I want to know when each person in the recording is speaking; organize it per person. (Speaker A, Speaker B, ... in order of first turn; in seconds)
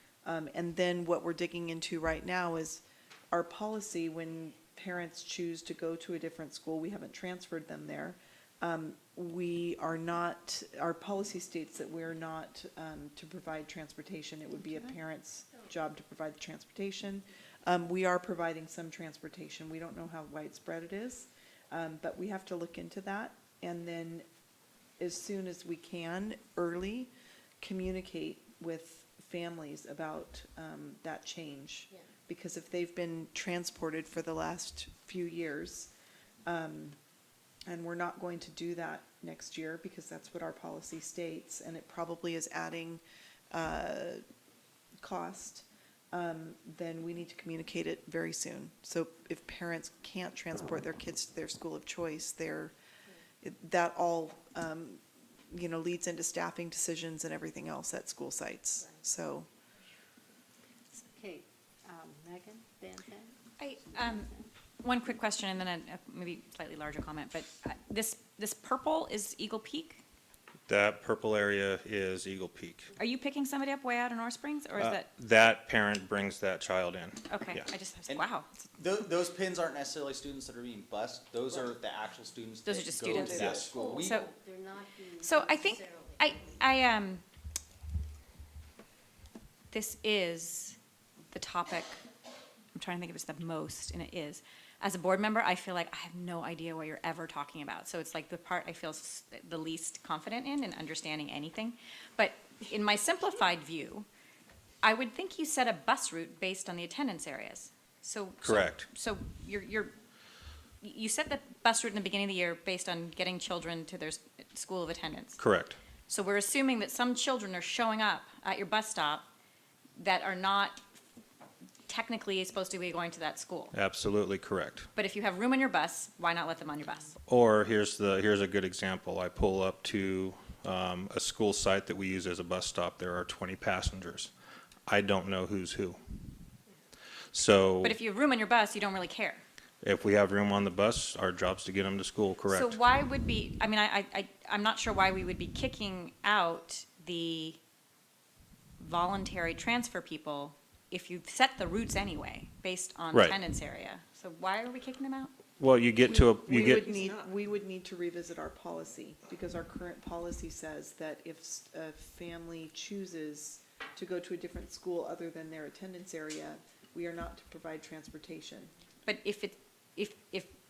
Speaker A: 0.2-24.2, 25.0-27.1, 27.6-35.9, 36.5-37.0, 37.7-44.2, 45.0-52.7, 53.4-59.5, 156.1-168.7
Speaker B: 61.2-63.3, 83.5-86.2
Speaker C: 63.6-64.3, 64.8-70.0, 73.0-75.1, 77.3-78.7, 82.7-84.3, 85.2-87.2, 89.7-90.8, 91.3-92.0, 92.7-104.1, 104.8-109.9, 110.8-115.4, 116.1-119.3, 120.0-120.8, 121.9-123.8, 125.0-127.2, 137.8-139.4, 142.5-147.6, 148.8-155.3, 169.1-170.5
Speaker D: 70.7-72.9, 74.8-77.7, 83.3-83.7, 108.4-108.8, 115.4-115.8, 123.7-124.9, 127.3-134.3, 134.9-136.0, 137.3-138.0, 139.8-142.8, 153.1-153.4, 155.6-157.0
Speaker E: 78.1-84.3